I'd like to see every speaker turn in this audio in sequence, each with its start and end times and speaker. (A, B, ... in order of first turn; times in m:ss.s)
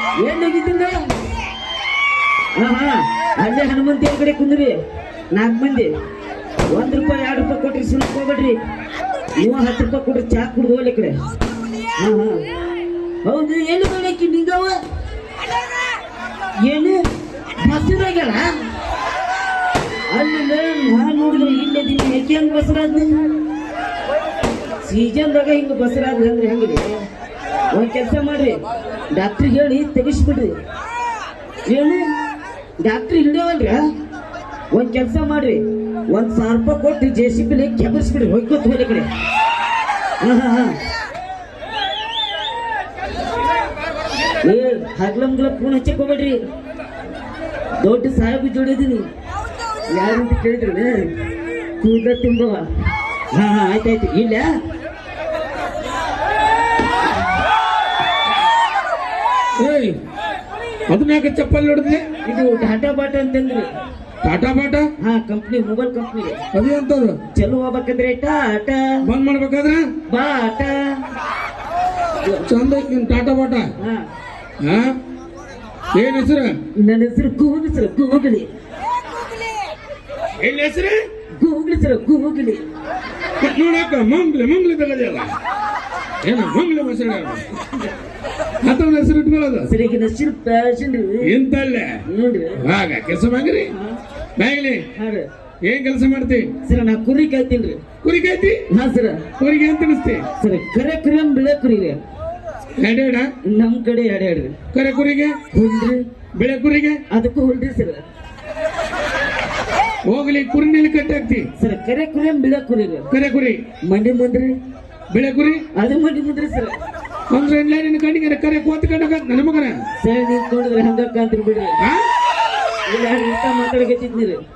0:00.2-0:01.1 A
0:02.6-0:04.8 A
0:05.3-0:05.9 A
0:06.7-0:08.6 A
0:09.4-0:11.2 A
0:12.0-0:12.4 A
0:13.2-0:14.8 A
0:16.6-0:17.0 A
0:17.6-0:18.5 A
0:20.1-0:23.2 A
0:24.8-0:27.0 A
0:27.7-0:28.6 A
0:29.1-0:30.5 A
0:31.7-0:32.0 A
0:32.8-0:33.8 A
0:34.7-0:39.1 A
0:40.2-0:40.8 A
0:44.4-0:46.4 A
0:47.8-0:49.1 A
0:49.9-0:51.1 A
0:51.8-0:52.6 A
0:53.3-0:54.5 A
0:59.6-1:00.0 B
1:00.9-1:02.0 B
1:02.2-1:03.7 A
1:04.2-1:04.9 B
1:05.0-1:06.4 A
1:06.5-1:07.2 B
1:07.3-1:09.0 A
1:09.0-1:09.9 B
1:10.1-1:10.8 A
1:12.4-1:13.7 B
1:13.8-1:14.0 A
1:14.6-1:15.0 B
1:16.0-1:16.6 B
1:16.8-1:18.5 A
1:20.4-1:21.0 B
1:21.4-1:22.6 A
1:23.4-1:25.3 B
1:26.2-1:27.5 B
1:28.6-1:29.7 B
1:29.7-1:31.3 A
1:31.2-1:32.0 B
1:32.1-1:32.6 A
1:32.6-1:33.7 B
1:33.7-1:34.0 A
1:34.4-1:34.8 B
1:35.0-1:35.3 A
1:35.6-1:36.5 B
1:36.6-1:37.8 A
1:38.0-1:38.6 B
1:38.7-1:39.3 A
1:39.4-1:40.2 B
1:40.4-1:42.0 A
1:42.8-1:43.3 B
1:43.4-1:44.6 A
1:44.7-1:45.4 B
1:45.5-1:46.0 A
1:46.4-1:47.0 B
1:47.1-1:48.0 A
1:50.1-1:51.5 B
1:51.6-1:53.1 A
1:53.1-1:53.6 B
1:53.8-1:54.6 A
1:55.1-1:55.6 B
1:55.8-1:56.8 A
1:57.3-1:59.8 B
2:00.0-2:01.8 A
2:02.9-2:04.4 A